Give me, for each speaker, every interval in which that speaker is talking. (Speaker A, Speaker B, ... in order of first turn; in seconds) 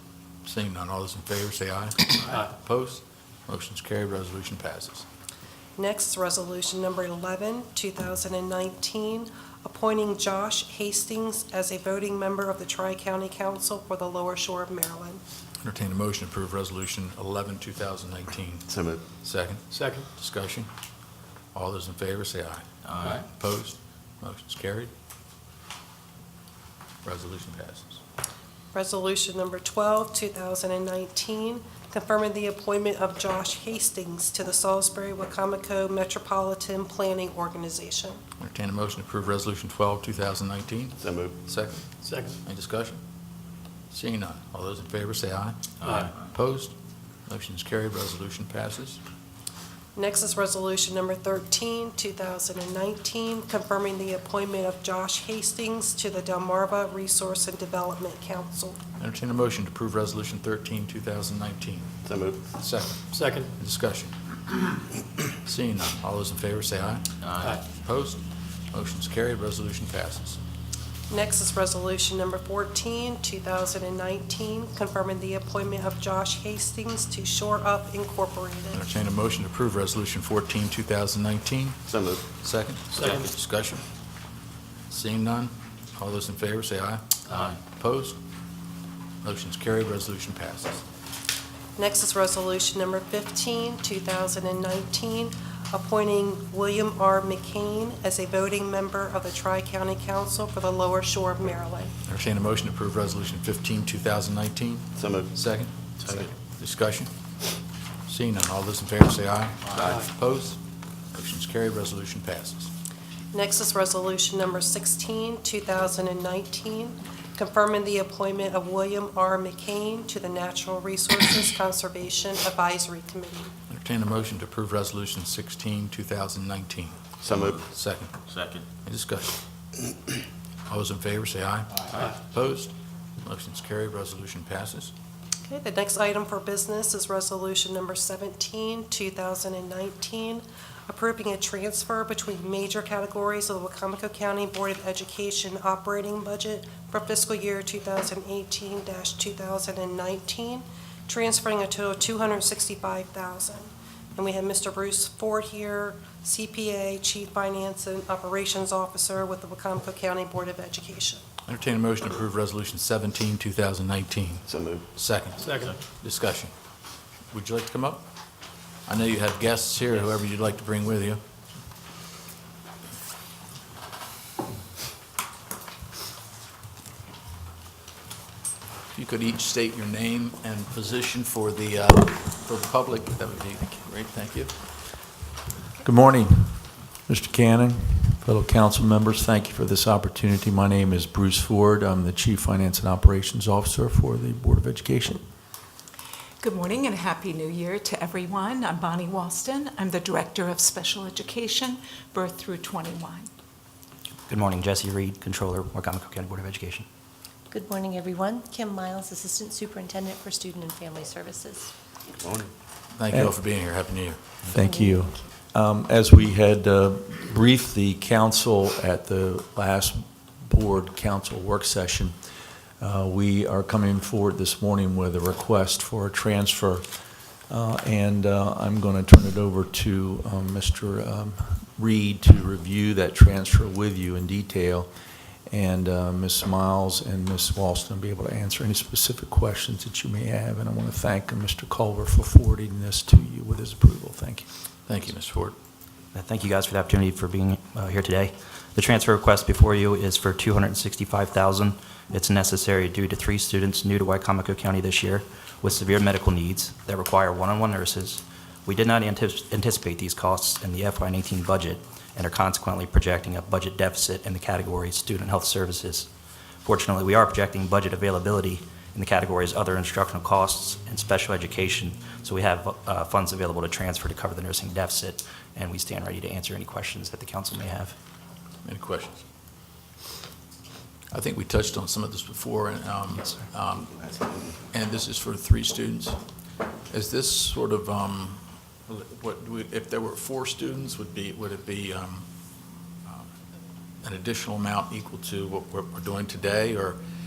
Speaker A: 0.4-5.0, 15.6-18.7, 19.2-20.7, 21.5-24.9, 27.0-28.0, 38.4-41.9, 42.4-43.0, 43.9-46.7, 47.3-49.0, 59.0-61.9, 62.6-64.1, 65.4-68.2, 68.7-70.4, 78.7-81.8, 82.4-83.8, 84.9-88.2, 89.2-90.8, 102.0-105.7, 106.4-107.1, 108.1-110.6, 111.1-112.7, 123.7-127.1, 127.7-128.1, 128.8-129.3, 130.7-132.7, 133.2-134.9, 161.5-166.5, 167.3-168.1, 168.9-171.2, 178.9-184.6, 212.9-214.2, 244.9-245.6, 278.6-279.2, 281.1-284.0, 284.7-286.2, 286.9-292.2, 294.0-297.0
Speaker B: 5.8-15.2, 28.7-38.2, 49.9-58.8, 71.1-78.8, 91.8-101.9, 113.3-123.5, 135.5-161.2
Speaker C: 18.7-19.0, 41.0-41.4, 62.0-62.4, 81.9-82.2, 105.0-105.3, 106.0-106.3, 127.2-127.6, 164.5-164.9, 212.2-212.5
Speaker D: 19.7-20.1, 42.0-42.4, 45.8-46.1, 63.1-63.5, 82.9-83.3, 109.8-110.1, 165.4-165.8
Speaker E: 22.8-23.2, 45.9-46.2, 67.2-67.6, 87.3-87.6, 127.2-127.6, 128.2-128.7, 131.8-132.1
Speaker F: 185.8-195.2, 214.5-222.2, 222.8-226.9, 227.5-234.9, 235.5-244.4
Speaker G: 196.4-203.3
Speaker H: 204.3-206.9, 246.1-266.1, 266.6-277.9
Speaker I: 207.5-211.7, 214.5-215.2